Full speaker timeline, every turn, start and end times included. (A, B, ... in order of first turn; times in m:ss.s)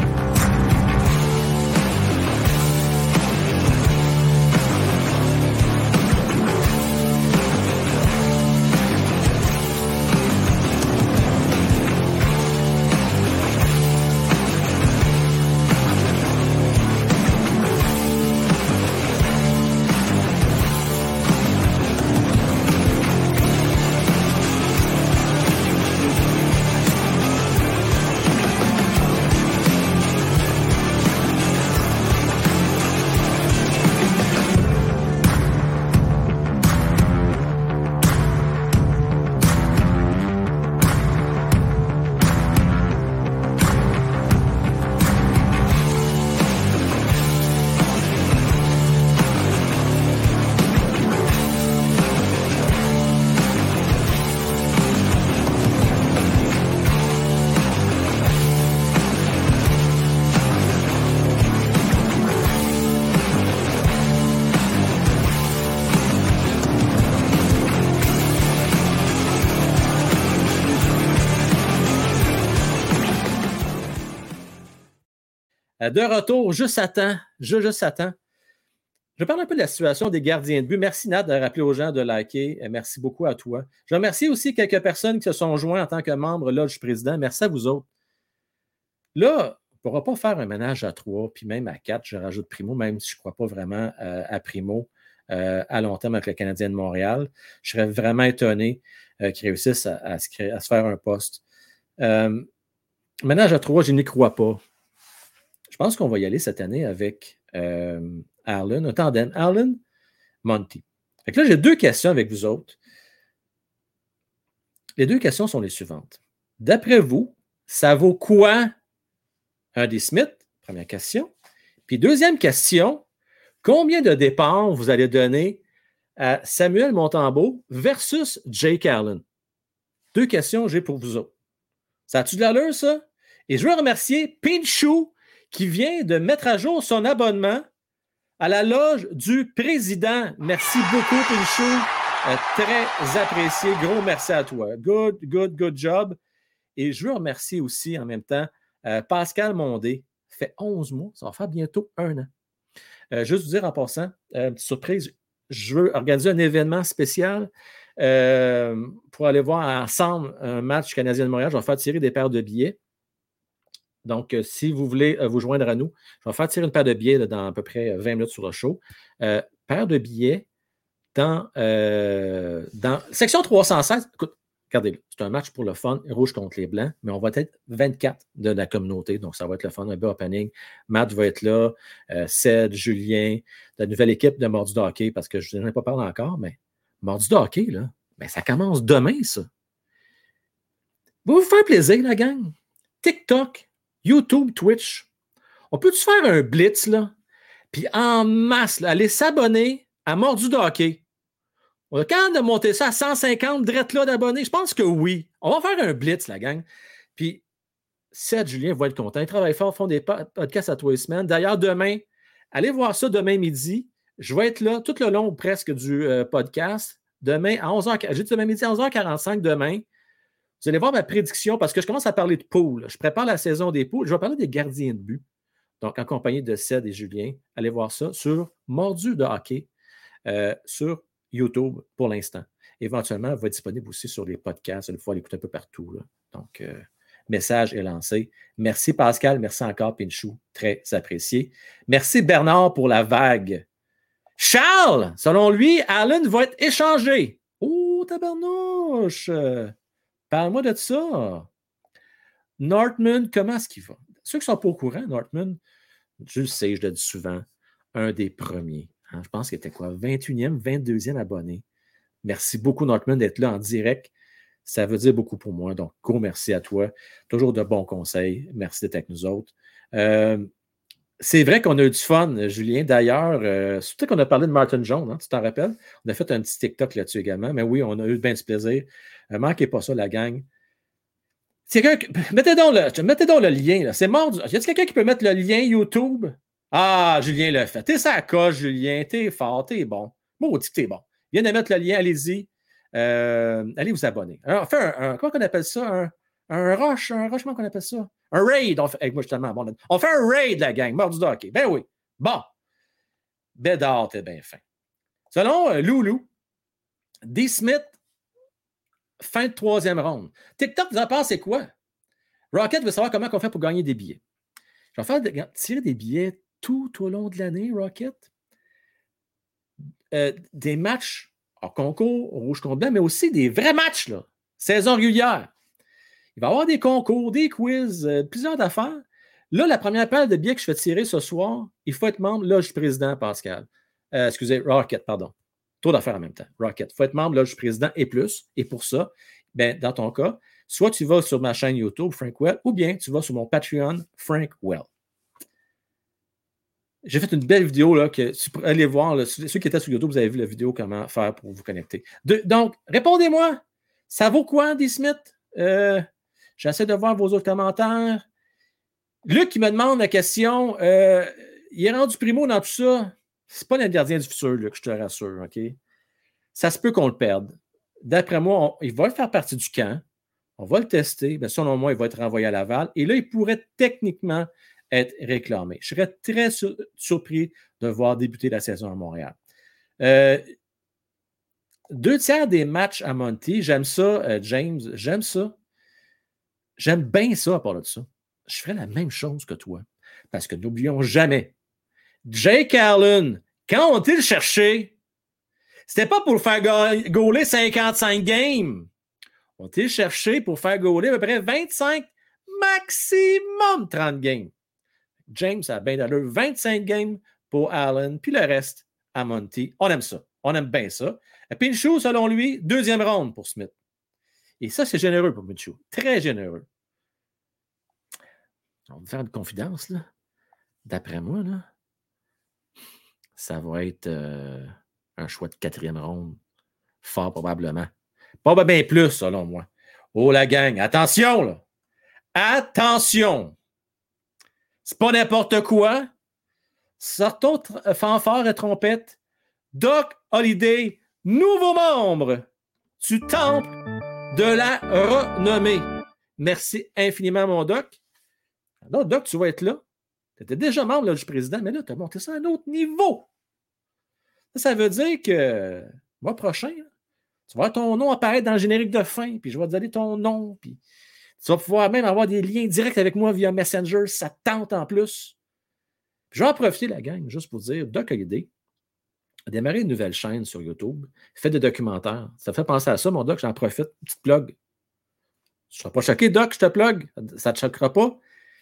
1:15.8-1:18.1 A
1:19.2-1:27.8 A
1:29.1-1:41.4 A
1:42.0-1:42.4 A
1:43.2-1:44.6 A
1:45.7-1:49.8 A
1:50.4-1:52.8 A
1:55.0-1:58.7 A
1:59.7-2:01.3 A
2:01.8-2:03.0 A
2:03.6-2:05.6 A
2:06.2-2:09.2 A
2:10.1-2:11.3 A
2:12.1-2:17.6 A
2:18.4-2:26.2 A
2:26.8-2:32.3 A
2:33.1-2:42.8 A
2:44.0-2:50.4 A
2:51.1-3:09.5 A
3:11.2-3:15.1 A
3:15.7-3:17.1 A
3:17.7-3:21.0 A
3:21.9-3:27.4 A
3:28.1-3:39.8 A
3:40.6-3:45.2 A
3:45.8-3:49.7 A
3:50.2-4:03.6 A
4:04.4-4:09.7 A
4:10.3-4:11.5 A
4:12.6-4:15.6 A
4:16.2-4:21.6 A
4:22.2-4:24.1 A
4:24.6-4:30.5 A
4:31.2-4:40.5 A
4:41.7-5:02.5 A
5:03.6-5:04.6 A
5:05.3-5:06.3 A
5:07.2-5:07.9 A
5:09.2-5:11.7 A
5:12.5-5:14.2 A
5:14.9-5:18.2 A
5:20.1-5:25.5 A
5:26.4-5:44.9 A
5:47.0-5:56.1 A
5:56.6-5:58.2 A
5:59.2-6:05.8 A
6:06.5-6:10.0 A
6:10.6-6:19.3 A
6:20.0-6:20.5 A
6:21.9-6:25.5 A
6:26.8-6:31.5 A
6:32.2-6:34.9 A
6:35.9-6:38.9 A
6:39.6-6:44.5 A
6:45.3-6:53.7 A
6:54.6-6:56.6 A
6:58.9-7:00.1 A
7:00.8-7:01.7 A
7:03.4-7:06.4 A
7:07.0-7:07.9 A
7:08.4-7:11.6 A
7:12.3-7:13.6 A
7:14.8-7:16.1 A
7:17.0-7:19.2 A
7:19.7-7:22.4 A
7:23.0-7:23.7 A
7:24.3-7:28.0 A
7:28.8-7:29.8 A
7:30.4-7:33.3 A
7:34.5-7:36.9 A
7:37.5-7:40.8 A
7:41.4-7:45.3 A
7:46.3-7:48.5 A
7:49.5-7:54.5 A
7:55.7-7:58.2 A